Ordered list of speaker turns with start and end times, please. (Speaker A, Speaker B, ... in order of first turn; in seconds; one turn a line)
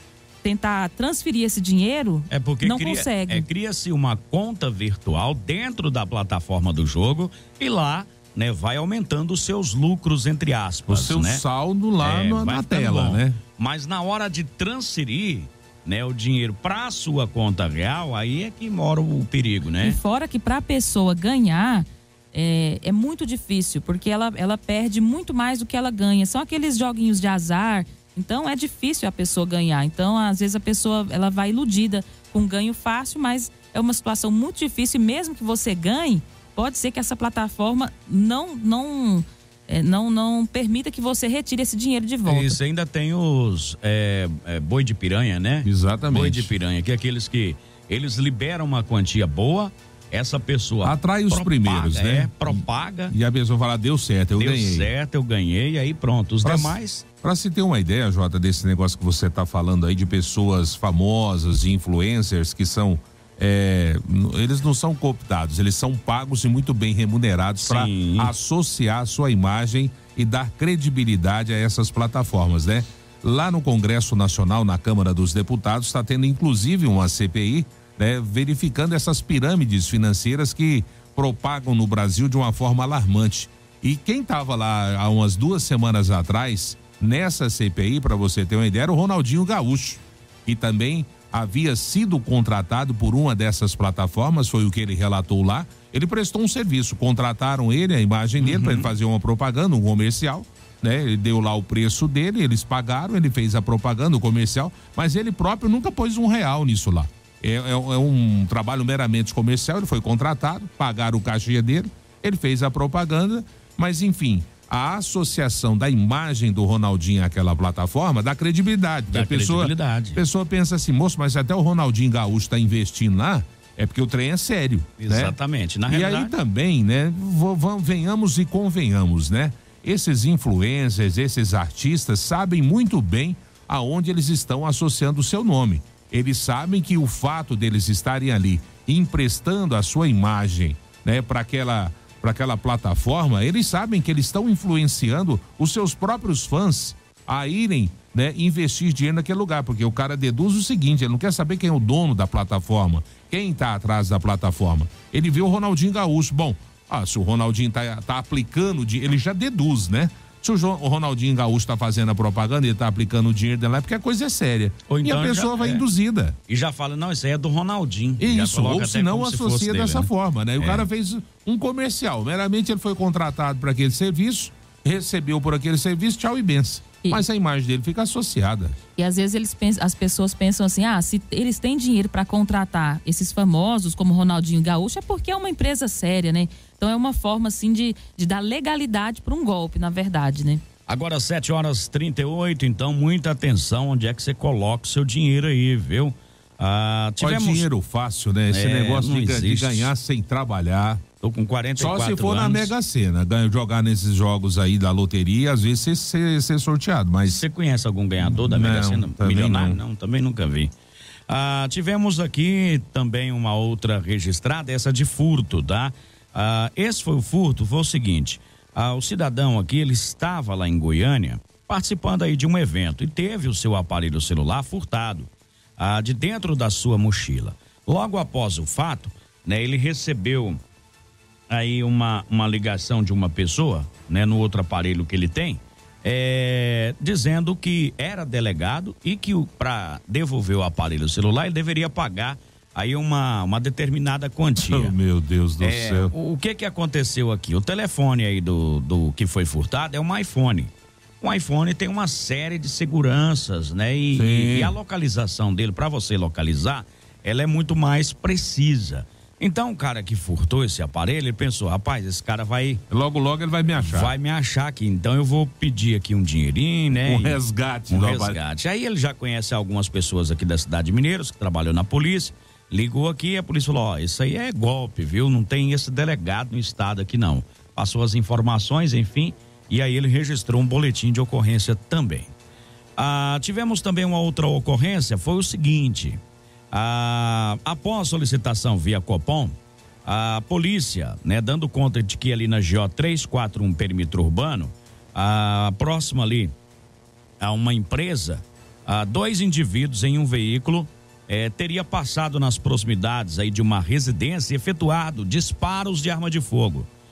Speaker A: 0.4-3.5
Speaker B: 2.3-11.4
Speaker C: 10.9-13.4
Speaker B: 12.0-20.0
Speaker A: 19.8-42.6
Speaker B: 42.2-53.1
Speaker C: 45.6-46.5
Speaker C: 50.8-54.9
Speaker B: 54.3-57.0
Speaker C: 56.4-125.3
Speaker B: 67.6-68.3
Speaker B: 98.4-98.9
Speaker B: 119.1-120.2
Speaker B: 125.0-126.3
Speaker C: 125.9-166.4
Speaker B: 164.9-165.9
Speaker B: 166.5-170.8
Speaker C: 168.2-178.8
Speaker A: 179.0-190.6
Speaker B: 190.9-197.7
Speaker C: 197.2-201.0
Speaker B: 198.5-199.9
Speaker B: 201.2-202.7
Speaker C: 201.8-207.4
Speaker B: 207.2-210.7
Speaker C: 208.2-209.8
Speaker B: 211.3-230.6
Speaker B: 231.5-244.9
Speaker C: 244.6-246.1
Speaker B: 245.6-262.8
Speaker C: 254.1-254.7
Speaker C: 262.9-264.1
Speaker B: 263.8-282.3
Speaker C: 267.0-268.4
Speaker B: 283.0-286.2
Speaker B: 286.7-296.5
Speaker B: 297.4-306.9